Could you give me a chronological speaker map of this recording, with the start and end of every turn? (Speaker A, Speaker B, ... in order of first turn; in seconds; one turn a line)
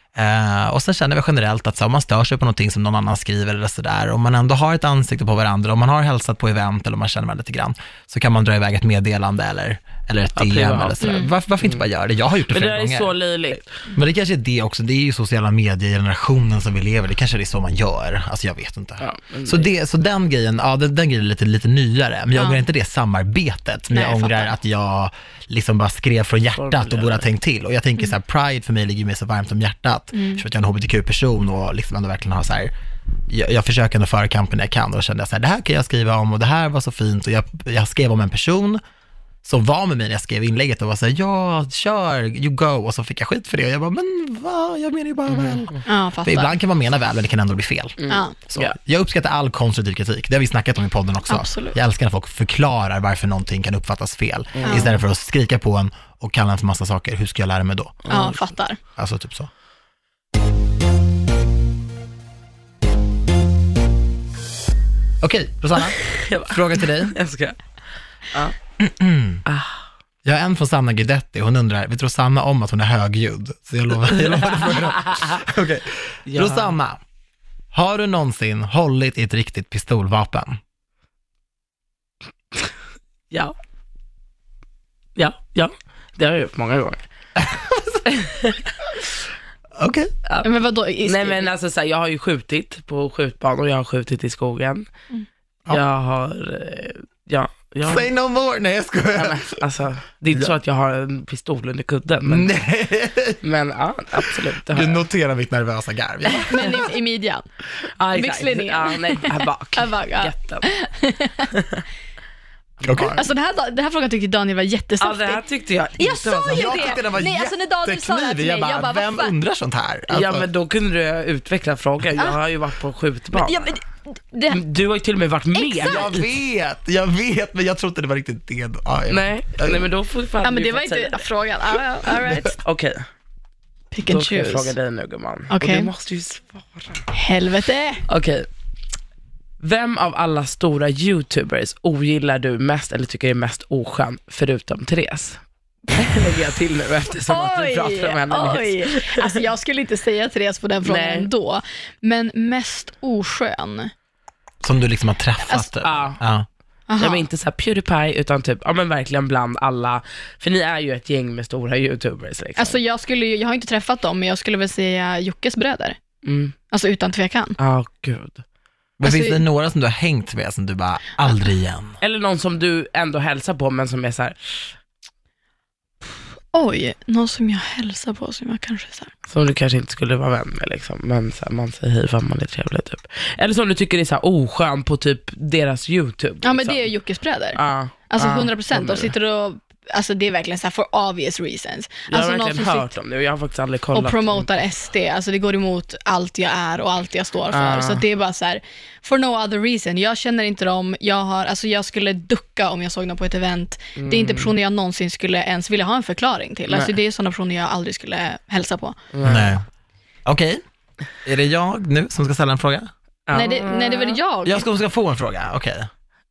Speaker A: 0.1-13.1
Speaker B: 10.3-11.0
Speaker C: 11.0-11.3
Speaker B: 12.5-13.8
Speaker A: 13.9-32.7
Speaker B: 19.0-19.7
Speaker C: 22.3-22.6
Speaker C: 23.9-24.6
Speaker B: 26.6-27.2
Speaker C: 30.1-30.4
Speaker A: 33.3-38.8
Speaker A: 39.4-58.0
Speaker B: 45.4-45.6
Speaker C: 45.8-46.5
Speaker B: 48.0-48.8
Speaker C: 48.1-48.3
Speaker C: 51.3-51.8
Speaker B: 54.5-54.9
Speaker C: 54.6-54.9
Speaker B: 58.0-58.4
Speaker C: 58.1-58.8
Speaker A: 59.0-59.5
Speaker A: 65.2-67.2
Speaker B: 66.0-67.6
Speaker A: 68.8-69.4
Speaker B: 69.5-69.8
Speaker A: 70.2-77.0
Speaker B: 74.3-75.3
Speaker B: 76.3-76.7
Speaker A: 77.7-80.6
Speaker B: 85.2-87.0
Speaker A: 87.4-88.0
Speaker B: 88.1-88.6
Speaker A: 89.8-90.1
Speaker C: 90.4-91.5
Speaker B: 91.0-94.9
Speaker B: 95.7-98.1
Speaker A: 97.8-99.6
Speaker B: 99.1-102.5
Speaker A: 102.3-103.4
Speaker B: 103.4-105.0
Speaker A: 104.2-106.9
Speaker C: 106.5-107.5
Speaker B: 108.0-110.7
Speaker C: 108.1-111.5
Speaker B: 111.5-111.8
Speaker A: 112.8-113.2
Speaker C: 113.1-115.4
Speaker B: 115.0-117.0
Speaker C: 116.0-119.3
Speaker A: 116.4-120.5
Speaker B: 120.1-123.7
Speaker C: 123.3-124.6
Speaker B: 124.5-126.2
Speaker C: 125.5-126.2
Speaker A: 125.8-129.8
Speaker B: 129.1-131.2
Speaker C: 130.4-132.6
Speaker B: 132.2-133.0
Speaker C: 133.9-134.7
Speaker B: 134.1-137.0
Speaker C: 135.5-135.9
Speaker C: 137.1-138.0
Speaker B: 138.1-138.5
Speaker B: 139.6-145.4
Speaker B: 145.9-149.4
Speaker C: 147.2-153.9
Speaker B: 150.8-151.3
Speaker A: 154.6-156.4
Speaker B: 155.8-156.2
Speaker C: 156.9-157.3
Speaker B: 157.0-162.8
Speaker C: 162.6-166.0
Speaker B: 166.2-166.6
Speaker C: 166.7-167.6
Speaker B: 167.6-168.4
Speaker A: 169.0-172.0
Speaker C: 169.0-169.4
Speaker B: 172.0-174.6
Speaker C: 176.5-179.1
Speaker B: 179.3-186.9
Speaker C: 186.4-192.9
Speaker B: 187.5-189.1
Speaker B: 192.1-194.5
Speaker C: 193.9-209.0
Speaker B: 197.5-198.0
Speaker B: 203.9-204.5
Speaker B: 206.7-206.9
Speaker B: 209.1-209.6
Speaker A: 209.2-209.6
Speaker A: 210.2-210.6
Speaker A: 211.2-212.9
Speaker B: 213.3-214.2
Speaker C: 213.3-214.7
Speaker A: 214.4-215.9